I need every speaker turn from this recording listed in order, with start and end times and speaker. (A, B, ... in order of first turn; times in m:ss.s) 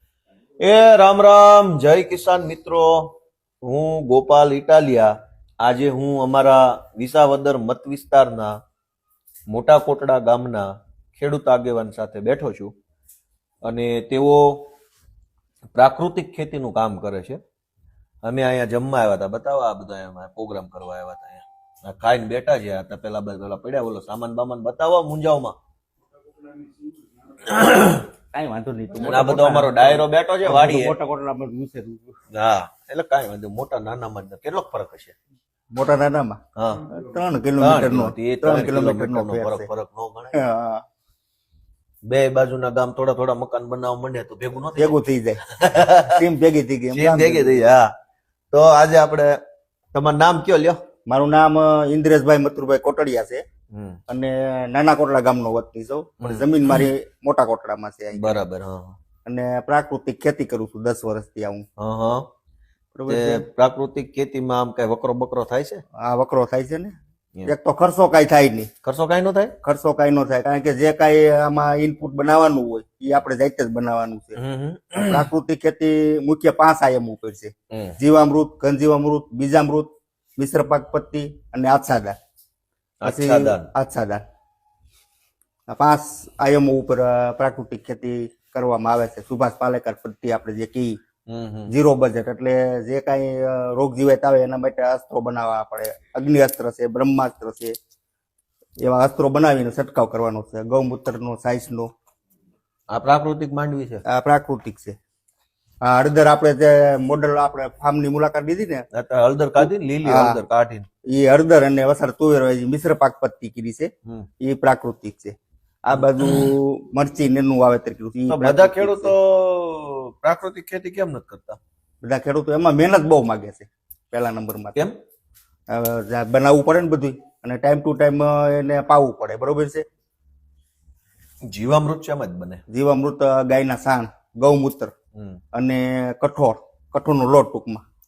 0:00.6-0:08.6 A
0:09.5-0:12.7 A
0:13.6-0:14.7 A
0:15.7-0:17.4 A
0:18.2-0:25.6 A
0:27.5-0:28.1 A
0:28.3-0:32.2 B
0:29.0-0:31.0 A
0:32.3-0:35.2 A
0:35.7-0:39.7 B
0:36.6-0:36.9 A
0:37.6-0:40.4 A
0:40.3-0:40.8 B
0:42.1-0:46.2 A
0:44.7-0:45.4 B
0:46.0-0:47.6 B
0:46.9-0:47.9 A
0:48.5-0:49.4 A
0:49.9-0:50.8 A
0:51.1-0:53.4 B
0:53.7-0:54.0 A
0:54.1-0:58.4 B
0:56.2-0:56.8 A
0:58.1-0:59.0 A
0:59.3-1:01.6 B
1:01.8-1:02.3 A
1:02.9-1:03.5 B
1:03.1-1:05.8 A
1:06.0-1:08.7 B
1:08.8-1:09.6 A
1:09.6-1:14.4 B
1:14.4-1:15.3 A
1:15.0-1:22.2 B
1:17.7-1:18.0 A
1:23.0-1:23.7 A
1:23.0-1:24.2 B
1:25.7-1:31.0 B
1:31.3-1:31.7 A
1:31.7-1:37.8 B
1:38.8-1:41.9 B
1:42.9-1:44.0 A
1:44.1-1:45.0 B
1:45.8-1:48.8 B
1:48.9-1:50.9 A
1:49.6-1:50.4 B
1:51.1-1:53.9 B
1:54.4-1:59.1 B
1:58.3-2:01.6 A
2:02.0-2:04.9 B
2:05.7-2:09.8 B
2:11.5-2:12.6 A
2:12.7-2:14.9 B
2:15.2-2:15.4 A
2:15.5-2:17.8 B